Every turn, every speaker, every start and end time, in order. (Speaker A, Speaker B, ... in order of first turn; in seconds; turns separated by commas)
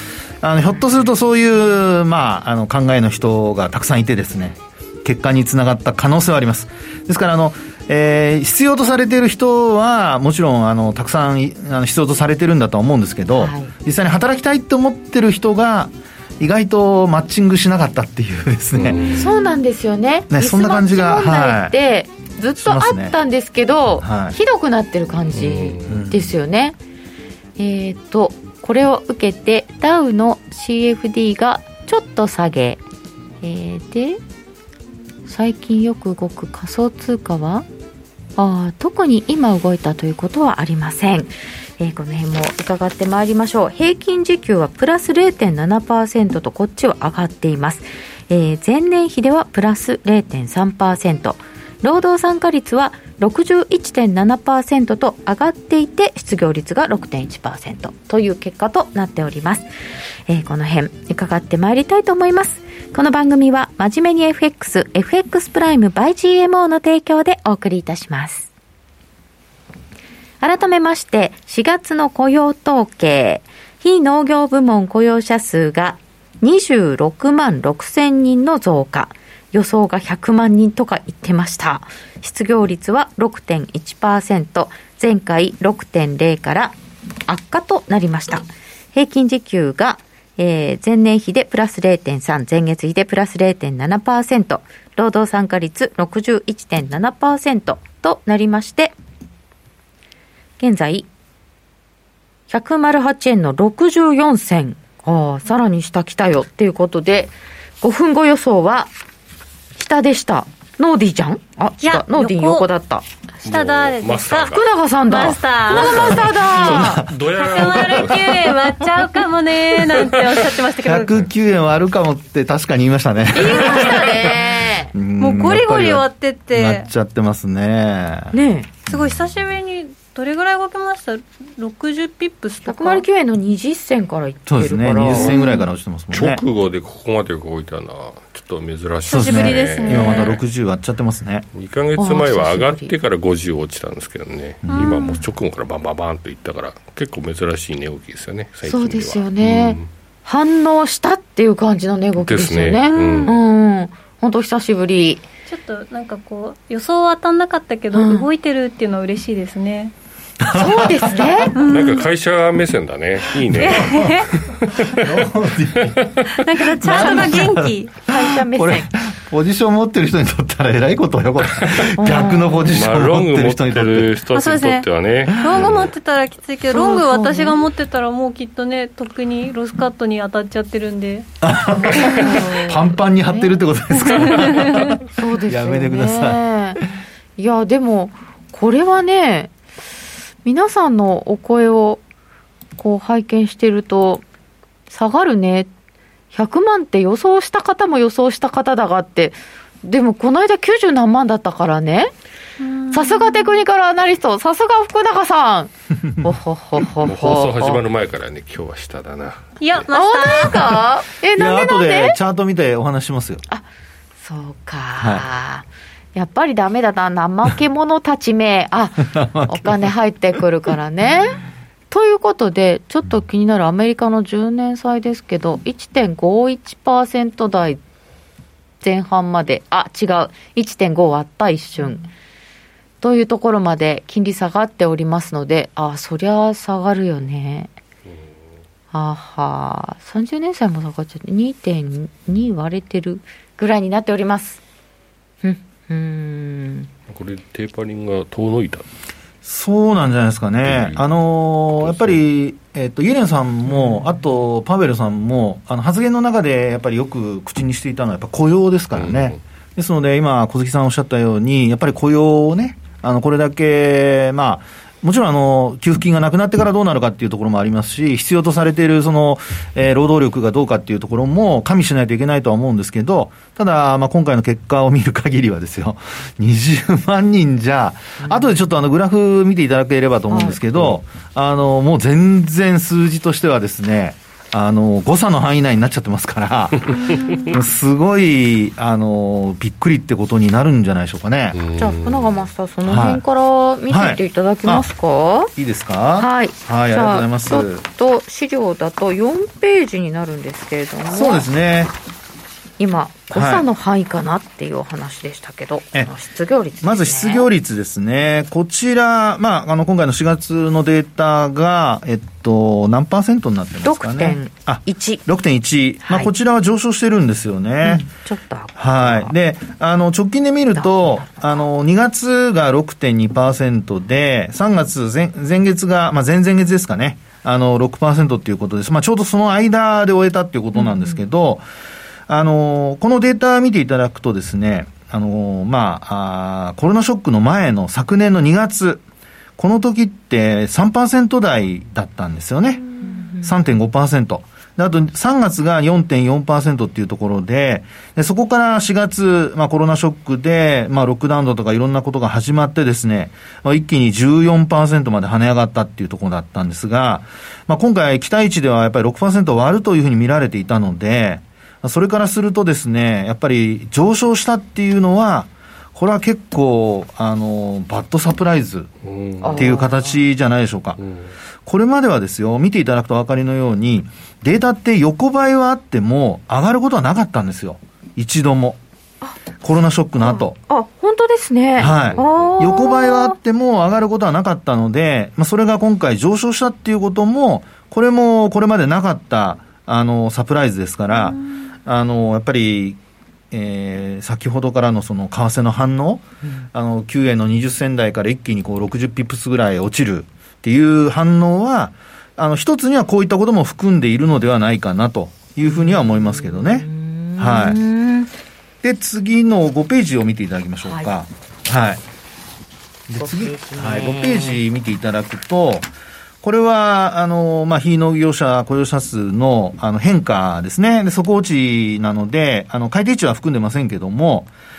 Speaker A: 0.4-19.2, Speaker B: 13.3-13.7, Speaker C: 18.7-19.2, Speaker B: 19.1-26.8, Speaker A: 20.3-21.7, Speaker A: 22.6-23.1, Speaker A: 24.0-24.3, Speaker C: 25.4-25.9, Speaker A: 25.9-26.3, Speaker B: 27.6-32.8, Speaker B: 33.4-34.2, Speaker B: 35.2-37.6, Speaker B: 38.4-59.7, Speaker B: 60.3-68.5, Speaker B: 70.4-86.7, Speaker B: 87.3-98.9, Speaker B: 100.6-101.1, Speaker B: 102.5-108.9, Speaker B: 109.8-113.0, Speaker D: 111.8-112.7, Speaker C: 113.4-114.7, Speaker D: 113.4-116.3, Speaker B: 114.5-117.0, Speaker C: 115.5-120.5, Speaker A: 116.5-118.4, Speaker D: 117.3-121.1, Speaker A: 120.8-124.1, Speaker B: 123.3-124.9, Speaker A: 124.9-128.3, Speaker D: 125.2-126.9, Speaker B: 128.3-128.7, Speaker A: 128.9-129.2, Speaker D: 128.9-133.0, Speaker B: 132.7-135.6, Speaker A: 134.4-136.4, Speaker C: 135.0-135.4, Speaker C: 136.1-140.3, Speaker D: 139.1-140.4, Speaker A: 139.1-141.4, Speaker C: 141.5-149.9, Speaker B: 142.0-142.9, Speaker A: 144.6-145.1, Speaker D: 144.7-145.2, Speaker B: 148.7-155.2, Speaker C: 152.2-153.3, Speaker D: 152.9-153.4, Speaker D: 155.4-159.9, Speaker B: 157.9-158.2, Speaker A: 160.4-161.6, Speaker B: 160.5-161.5, Speaker C: 161.5-164.5, Speaker D: 161.6-162.1, Speaker D: 163.6-164.8, Speaker A: 163.6-164.2, Speaker A: 164.8-166.1, Speaker C: 165.8-166.2, Speaker D: 166.3-167.9, Speaker A: 166.8-174.1, Speaker B: 166.9-168.9, Speaker C: 171.6-171.9, Speaker B: 172.0-172.7, Speaker C: 172.7-175.9, Speaker D: 174.3-181.3, Speaker A: 175.4-175.8, Speaker B: 176.7-177.6, Speaker A: 181.4-186.4, Speaker B: 181.8-183.5, Speaker D: 181.9-182.5, Speaker D: 184.0-184.9, Speaker B: 185.0-186.8, Speaker B: 187.4-189.5, Speaker B: 190.4-192.0, Speaker B: 192.8-194.2, Speaker B: 194.9-195.7, Speaker B: 196.3-202.1, Speaker D: 202.6-203.6, Speaker B: 202.9-207.8, Speaker C: 207.0-209.6, Speaker D: 209.6-210.7, Speaker B: 209.9-212.2, Speaker A: 211.3-213.4, Speaker B: 214.2-227.8, Speaker A: 215.0-215.2, Speaker A: 219.0-219.9, Speaker B: 228.8-232.1, Speaker B: 233.0-237.7, Speaker B: 238.9-244.6, Speaker B: 245.4-246.9, Speaker C: 247.1-248.8, Speaker A: 249.4-286.9, Speaker C: 250.6-251.0, Speaker C: 251.8-252.1, Speaker C: 259.0-259.4, Speaker B: 278.2-278.5, Speaker B: 280.3-280.6, Speaker D: 287.0-287.6, Speaker A: 287.5-291.6, Speaker C: 291.5-292.3, Speaker B: 291.8-295.5, Speaker A: 292.9-293.2, Speaker A: 293.9-294.9, Speaker A: 295.6-297.8, Speaker B: 296.2-301.4, Speaker A: 301.1-301.9, Speaker B: 302.8-307.5, Speaker A: 303.3-303.6, Speaker A: 306.8-318.0, Speaker B: 313.8-315.2, Speaker B: 316.0-316.3, Speaker B: 317.8-319.3, Speaker A: 318.8-331.6, Speaker B: 320.8-321.4, Speaker B: 330.8-331.2, Speaker A: 332.3-339.0, Speaker A: 339.6-342.8, Speaker B: 343.0-343.5, Speaker A: 343.4-368.9, Speaker C: 369.0-369.6, Speaker B: 369.4-370.2, Speaker A: 369.5-371.0, Speaker A: 371.6-378.8, Speaker A: 379.6-380.6, Speaker B: 380.2-383.4, Speaker A: 381.8-393.0, Speaker C: 381.9-382.5, Speaker A: 393.5-406.9, Speaker B: 405.6-408.3, Speaker A: 407.4-407.8, Speaker A: 408.8-412.0, Speaker A: 413.1-415.9, Speaker B: 413.2-414.6, Speaker A: 416.4-424.5